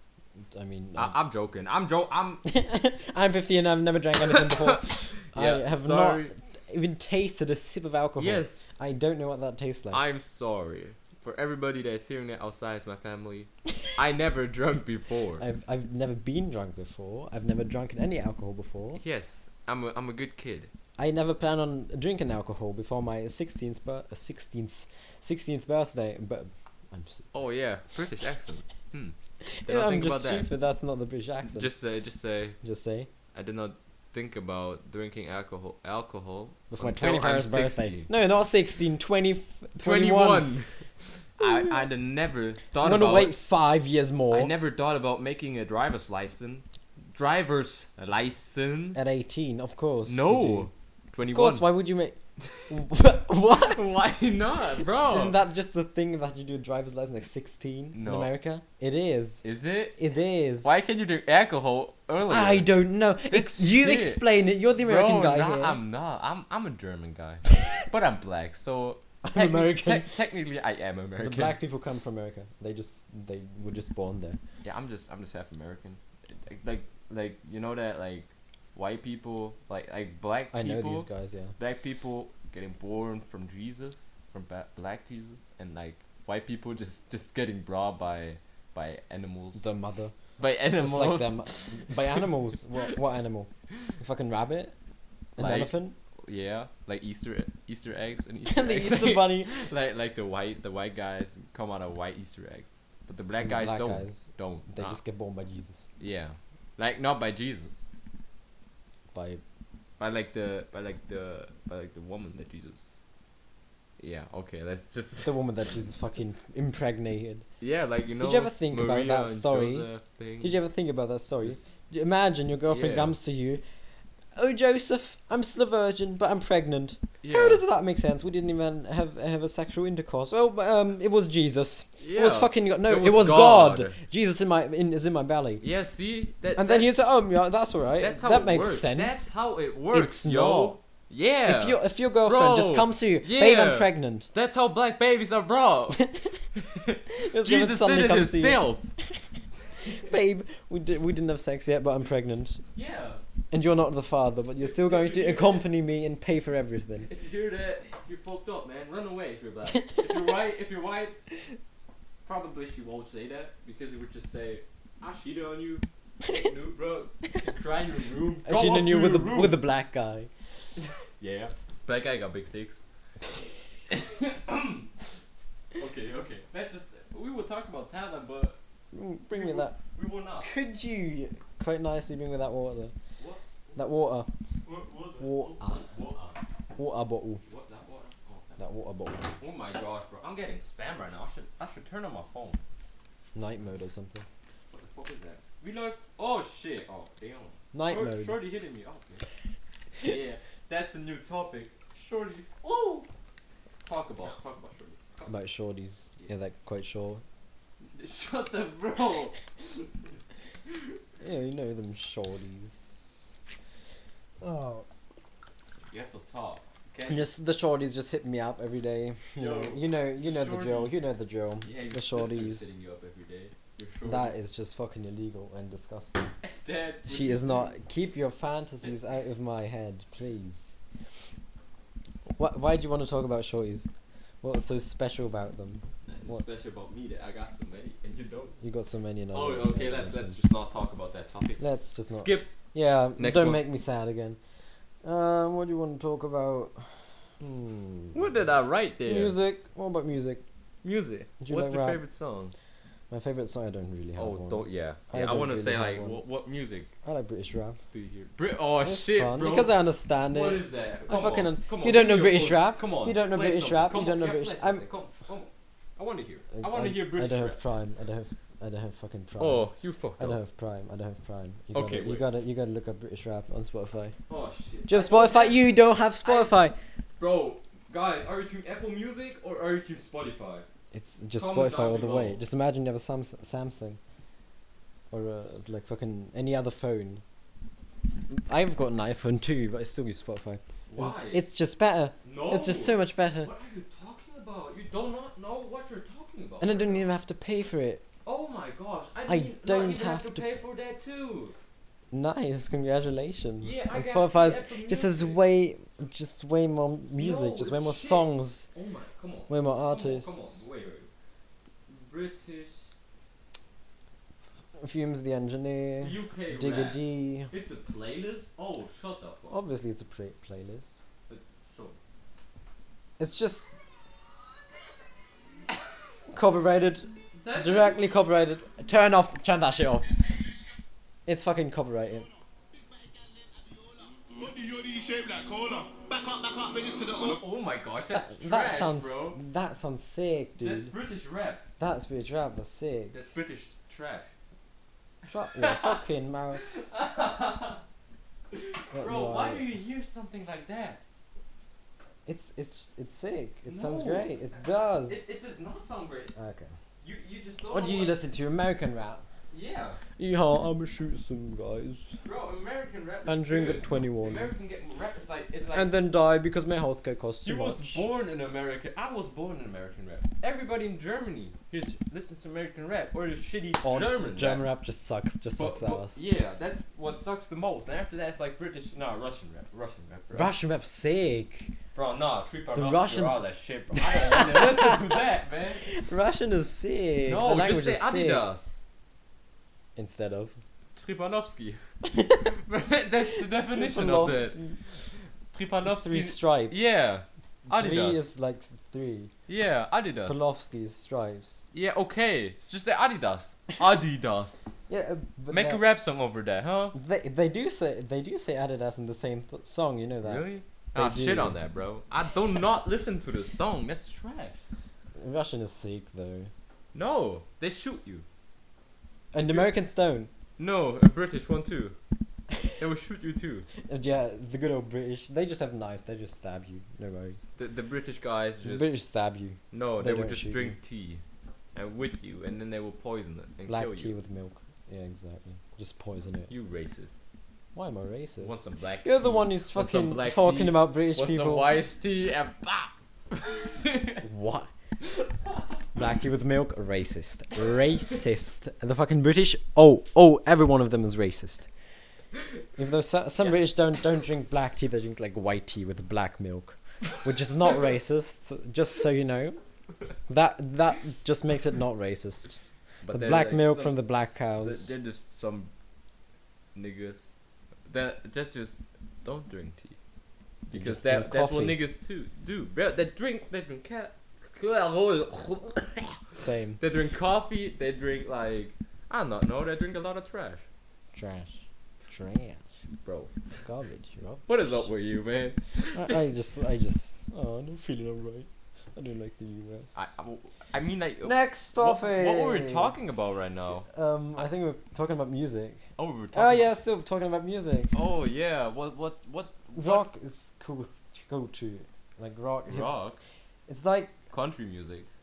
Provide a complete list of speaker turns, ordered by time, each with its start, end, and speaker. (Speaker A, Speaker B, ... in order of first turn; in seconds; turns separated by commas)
Speaker A: 0.4-1.2, Speaker B: 0.9-2.4, Speaker A: 2.4-10.0, Speaker B: 4.2-6.3, Speaker B: 8.2-8.7, Speaker B: 9.9-15.4, Speaker A: 15.4-19.0, Speaker B: 18.9-20.7, Speaker A: 21.0-27.3, Speaker B: 27.3-30.5, Speaker A: 29.4-31.7, Speaker B: 31.5-32.6, Speaker A: 32.6-33.1, Speaker B: 33.3-38.1, Speaker A: 36.7-40.5, Speaker B: 39.8-43.3, Speaker A: 41.4-41.9, Speaker A: 42.8-44.5, Speaker B: 44.3-49.0, Speaker A: 48.9-50.7, Speaker B: 50.1-51.6, Speaker A: 51.2-52.2, Speaker A: 52.7-53.9, Speaker B: 53.5-55.4, Speaker A: 55.1-59.4, Speaker B: 57.9-58.3, Speaker B: 59.4-60.0, Speaker A: 60.0-60.7, Speaker B: 60.6-62.7, Speaker A: 62.3-65.8, Speaker B: 63.3-71.6, Speaker A: 69.2-70.2, Speaker A: 71.2-74.4, Speaker B: 74.6-89.6, Speaker A: 80.5-81.5, Speaker A: 89.6-90.1, Speaker B: 90.4-92.9, Speaker A: 90.8-94.7, Speaker A: 95.4-96.0, Speaker B: 95.4-105.0, Speaker A: 98.5-99.7, Speaker A: 103.4-105.9, Speaker B: 106.0-107.8, Speaker A: 109.1-109.4, Speaker B: 110.0-112.9, Speaker B: 114.0-115.4, Speaker A: 115.2-117.5, Speaker B: 117.6-120.6, Speaker A: 118.2-119.9, Speaker A: 120.4-123.6, Speaker B: 121.4-121.8, Speaker B: 122.7-123.2, Speaker A: 124.3-135.6, Speaker B: 127.2-127.6, Speaker B: 132.0-133.9, Speaker B: 135.6-136.9, Speaker A: 136.6-139.3, Speaker B: 138.0-148.9, Speaker A: 139.9-140.8, Speaker A: 141.4-144.3, Speaker A: 145.9-146.4, Speaker A: 147.2-149.2, Speaker A: 149.8-152.6, Speaker B: 152.7-153.2, Speaker A: 153.5-157.1, Speaker B: 154.6-155.7, Speaker B: 157.0-161.2, Speaker A: 159.7-160.1, Speaker B: 162.2-169.6, Speaker A: 168.4-170.3, Speaker B: 170.8-172.8, Speaker B: 173.9-175.0, Speaker B: 175.8-178.6, Speaker A: 178.9-179.8, Speaker B: 179.3-180.5, Speaker A: 180.4-182.9, Speaker B: 183.2-183.8, Speaker A: 183.8-184.3, Speaker B: 184.6-186.4, Speaker A: 185.2-185.8, Speaker A: 186.8-187.4, Speaker B: 187.4-188.6, Speaker A: 188.6-189.3, Speaker B: 189.3-192.6, Speaker A: 193.3-194.2, Speaker B: 194.7-199.3, Speaker A: 197.7-198.4, Speaker B: 200.0-203.1, Speaker B: 203.8-205.4, Speaker A: 205.3-207.2, Speaker B: 207.9-209.9, Speaker B: 210.7-210.9, Speaker A: 211.2-213.3, Speaker A: 214.4-214.9, Speaker B: 215.9-217.3, Speaker A: 217.1-222.7, Speaker B: 219.4-221.0, Speaker B: 221.6-224.4, Speaker A: 224.0-226.3, Speaker B: 226.4-227.7, Speaker A: 227.1-230.8, Speaker A: 232.3-233.9, Speaker A: 234.4-236.4, Speaker B: 236.1-238.5, Speaker A: 238.6-240.5, Speaker B: 239.3-242.5, Speaker A: 241.6-244.4, Speaker B: 243.2-243.6, Speaker A: 245.0-248.4, Speaker B: 248.1-249.3, Speaker A: 249.0-250.4, Speaker B: 250.8-252.5, Speaker A: 251.4-252.0, Speaker A: 253.1-256.2, Speaker B: 254.2-256.9, Speaker A: 257.0-257.8, Speaker B: 257.9-259.8, Speaker A: 258.8-264.9, Speaker B: 260.3-267.6, Speaker A: 266.5-269.6, Speaker B: 269.4-270.4, Speaker A: 270.2-274.1, Speaker B: 271.7-272.2, Speaker B: 274.3-276.6, Speaker A: 274.9-276.8, Speaker B: 277.2-280.6, Speaker A: 280.9-284.0, Speaker B: 281.4-282.4, Speaker A: 285.1-287.2, Speaker A: 288.3-293.5, Speaker B: 290.9-291.4, Speaker B: 292.2-297.1, Speaker A: 296.6-298.0, Speaker B: 298.2-301.5, Speaker A: 299.3-300.4, Speaker A: 302.1-308.7, Speaker B: 303.6-305.4, Speaker B: 307.1-311.1, Speaker A: 309.5-310.6, Speaker B: 311.9-312.9, Speaker A: 314.8-317.5, Speaker B: 316.0-319.6, Speaker A: 319.5-321.0, Speaker B: 321.3-322.0, Speaker A: 323.2-323.7, Speaker A: 326.3-330.1, Speaker B: 327.4-328.0, Speaker A: 331.2-332.3, Speaker C: 333.0-337.4, Speaker B: 337.2-339.4, Speaker A: 338.1-340.9, Speaker B: 340.6-341.6, Speaker A: 341.8-343.1, Speaker B: 343.1-344.3, Speaker A: 345.3-346.6, Speaker B: 345.5-346.0, Speaker B: 346.5-347.8, Speaker B: 348.5-351.0, Speaker A: 348.9-349.7, Speaker A: 352.2-355.2, Speaker B: 353.7-354.4, Speaker B: 355.1-356.3, Speaker A: 356.4-356.7, Speaker B: 357.0-358.1, Speaker A: 357.7-359.2, Speaker B: 359.5-360.0, Speaker A: 360.2-362.1, Speaker B: 362.2-365.9, Speaker A: 363.2-364.5, Speaker A: 365.7-368.1, Speaker B: 367.4-374.6, Speaker A: 373.8-376.2, Speaker B: 375.6-380.5, Speaker A: 380.3-381.7, Speaker B: 381.9-386.0, Speaker A: 382.7-385.2, Speaker A: 385.8-388.4, Speaker B: 387.2-388.8, Speaker A: 389.9-390.6, Speaker B: 390.9-391.8, Speaker A: 392.0-392.5, Speaker B: 392.5-394.6, Speaker A: 393.3-394.8, Speaker B: 395.5-398.3, Speaker A: 395.9-397.0, Speaker A: 397.6-399.3, Speaker B: 399.5-400.4, Speaker A: 400.2-401.6, Speaker B: 401.7-404.7, Speaker A: 404.9-405.8, Speaker B: 405.5-406.9, Speaker A: 406.9-411.6, Speaker B: 410.2-414.6, Speaker A: 415.1-416.5, Speaker B: 416.9-418.2, Speaker A: 419.3-420.3, Speaker B: 419.4-419.7, Speaker B: 420.6-422.0, Speaker B: 422.8-423.7, Speaker A: 423.8-427.4, Speaker B: 427.6-429.0, Speaker A: 428.6-430.8, Speaker B: 429.7-431.2, Speaker B: 431.7-434.1, Speaker A: 433.7-436.5, Speaker B: 436.5-437.1, Speaker A: 437.7-441.8, Speaker B: 438.4-444.2, Speaker A: 444.2-444.7, Speaker B: 445.0-445.6, Speaker A: 445.9-451.7, Speaker A: 452.8-459.6, Speaker A: 460.3-464.9, Speaker B: 463.0-464.0, Speaker B: 464.6-465.7, Speaker B: 466.7-467.3, Speaker B: 467.9-470.0, Speaker B: 470.7-480.6, Speaker A: 470.7-471.8, Speaker A: 476.3-476.8, Speaker A: 481.1-482.6, Speaker B: 482.9-483.6, Speaker A: 483.6-484.9, Speaker B: 484.5-486.3, Speaker A: 485.9-489.9, Speaker B: 489.9-493.9, Speaker A: 491.2-493.0, Speaker A: 493.9-497.9, Speaker B: 496.0-496.7, Speaker B: 497.9-500.1, Speaker A: 499.7-502.9, Speaker B: 502.6-503.2, Speaker A: 503.7-504.1, Speaker B: 504.3-505.1